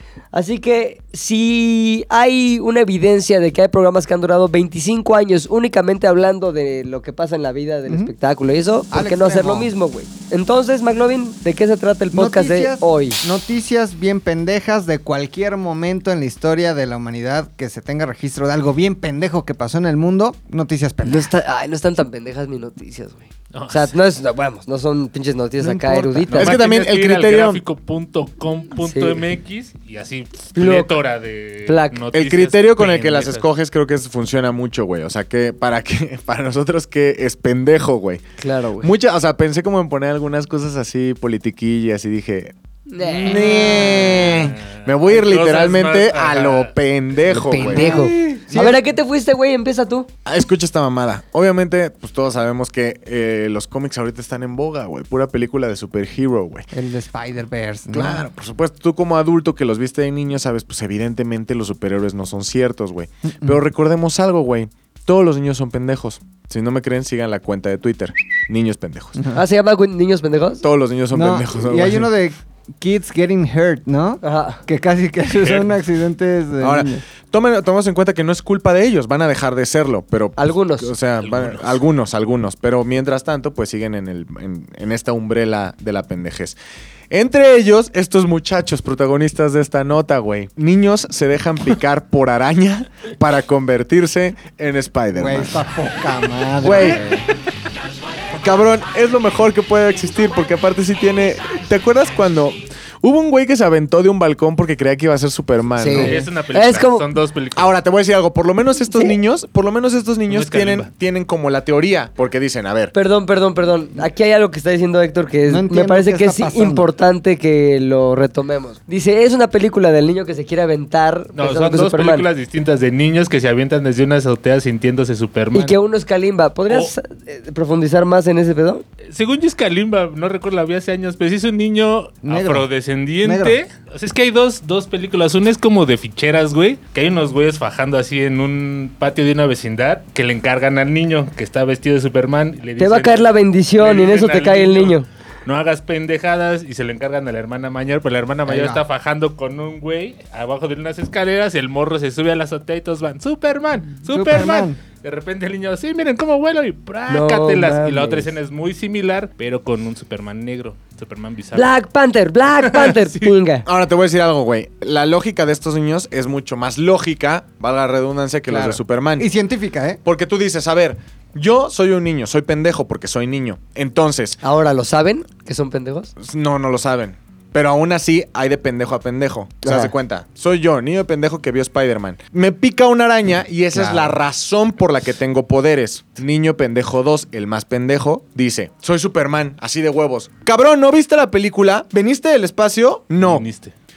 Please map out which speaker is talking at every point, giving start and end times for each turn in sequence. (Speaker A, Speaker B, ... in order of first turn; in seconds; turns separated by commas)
Speaker A: 0.3-13.2, Speaker B: 8.9-9.7, Speaker B: 12.1-21.3, Speaker A: 21.1-26.6, Speaker C: 23.5-23.9, Speaker B: 25.6-26.6, Speaker C: 26.3-33.5, Speaker D: 26.4-27.6, Speaker A: 28.8-29.2, Speaker A: 30.6-31.0, Speaker A: 31.7-32.0, Speaker D: 32.1-38.2, Speaker A: 38.4-38.9, Speaker D: 38.8-42.5, Speaker A: 42.9-44.3, Speaker B: 43.2-44.6, Speaker C: 43.3-46.7, Speaker D: 44.8-48.0, Speaker A: 47.2-50.1, Speaker B: 47.7-48.8, Speaker D: 50.3-56.7, Speaker B: 56.7-58.3, Speaker D: 57.9-69.2, Speaker B: 63.3-63.6, Speaker A: 69.3-70.7, Speaker D: 70.6-72.1, Speaker B: 71.1-77.0, Speaker A: 74.2-74.6, Speaker C: 75.3-75.7, Speaker D: 76.6-86.6, Speaker A: 80.4-80.9, Speaker C: 81.2-81.8, Speaker D: 87.1-95.6, Speaker B: 95.1-97.2, Speaker D: 96.6-97.1, Speaker D: 98.4-106.2, Speaker A: 105.8-107.1, Speaker C: 106.0-107.8, Speaker D: 107.6-112.9, Speaker C: 110.3-110.9, Speaker A: 112.9-122.3, Speaker B: 115.5-116.9, Speaker C: 121.4-125.8, Speaker A: 125.5-128.8, Speaker C: 129.1-161.7, Speaker B: 132.2-132.7, Speaker B: 133.2-133.6, Speaker A: 142.8-145.1, Speaker B: 148.5-148.8, Speaker B: 154.1-154.8, Speaker A: 157.1-158.3, Speaker A: 161.6-163.7, Speaker C: 162.5-163.3, Speaker D: 163.7-169.3, Speaker B: 168.5-170.0, Speaker D: 170.0-174.4, Speaker A: 174.4-176.1, Speaker D: 176.2-193.4, Speaker A: 179.6-179.9, Speaker B: 183.7-184.2, Speaker C: 193.2-193.7